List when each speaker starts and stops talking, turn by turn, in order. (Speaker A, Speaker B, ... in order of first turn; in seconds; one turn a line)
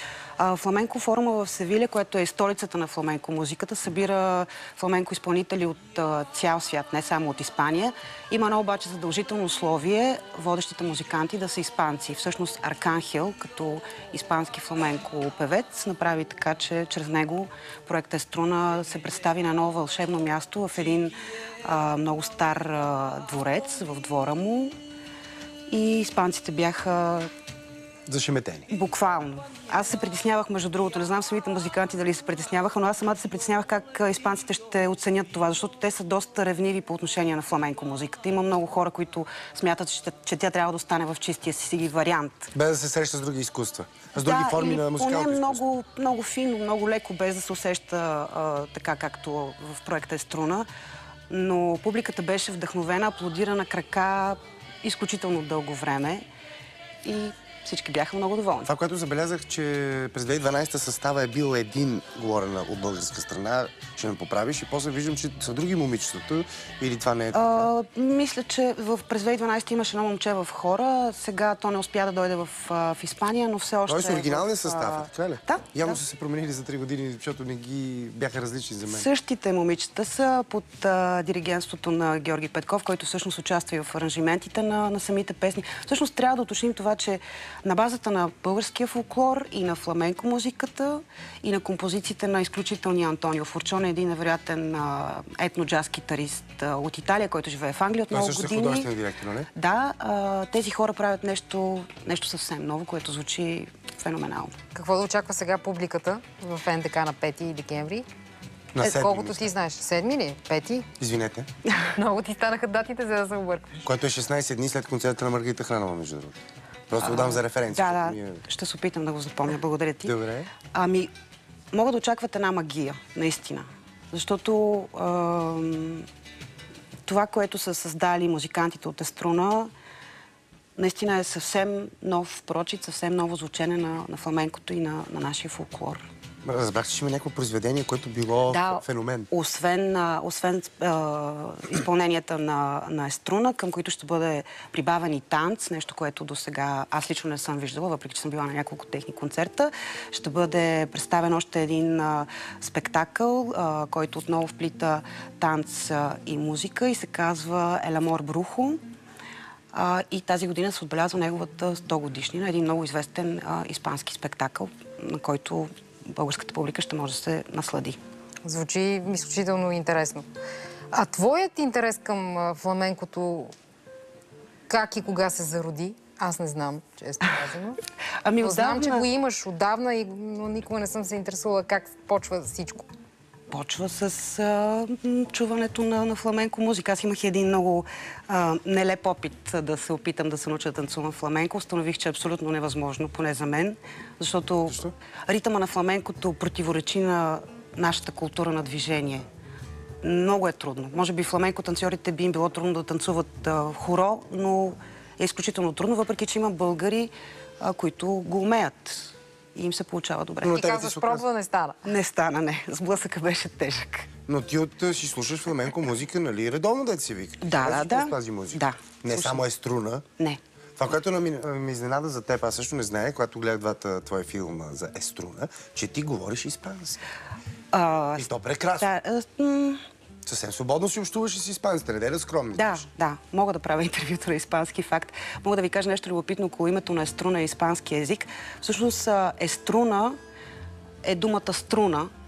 Speaker A: 0.4-24.7
Speaker A: 25.7-27.3
Speaker B: 28.1-28.7
Speaker A: 28.7-42.5
Speaker B: 42.5-45.6
Speaker A: 44.2-50.7
Speaker A: 51.3-56.2
Speaker A: 57.0-58.7
Speaker B: 58.6-67.7
Speaker A: 67.3-76.0
Speaker B: 73.9-79.1
Speaker A: 78.9-98.9
Speaker B: 98.1-99.5
Speaker A: 99.5-104.5
Speaker C: 104.7-108.0
Speaker B: 108.7-109.5
Speaker C: 108.8-110.9
Speaker B: 111.0-111.5
Speaker C: 111.9-113.8
Speaker B: 113.8-116.3
Speaker B: 116.9-118.4
Speaker A: 117.0-120.1
Speaker B: 120.0-120.5
Speaker A: 120.7-121.1
Speaker A: 121.7-126.1
Speaker A: 127.0-129.7
Speaker A: 130.8-136.0
Speaker B: 136.4-139.3
Speaker A: 138.5-158.8
Speaker A: 159.7-168.0
Speaker C: 168.4-170.2
Speaker C: 170.9-173.5
Speaker C: 174.7-177.8
Speaker A: 178.2-179.1
Speaker C: 178.4-182.9
Speaker A: 183.5-199.2
Speaker A: 200.0-211.2
Speaker B: 210.4-211.2
Speaker C: 210.4-211.9
Speaker A: 211.8-214.1
Speaker B: 214.3-220.0
Speaker A: 217.4-219.4
Speaker B: 220.8-227.0
Speaker A: 227.7-228.3
Speaker B: 228.2-228.9
Speaker A: 228.8-229.8
Speaker B: 230.2-232.8
Speaker A: 232.5-240.2
Speaker A: 241.0-242.1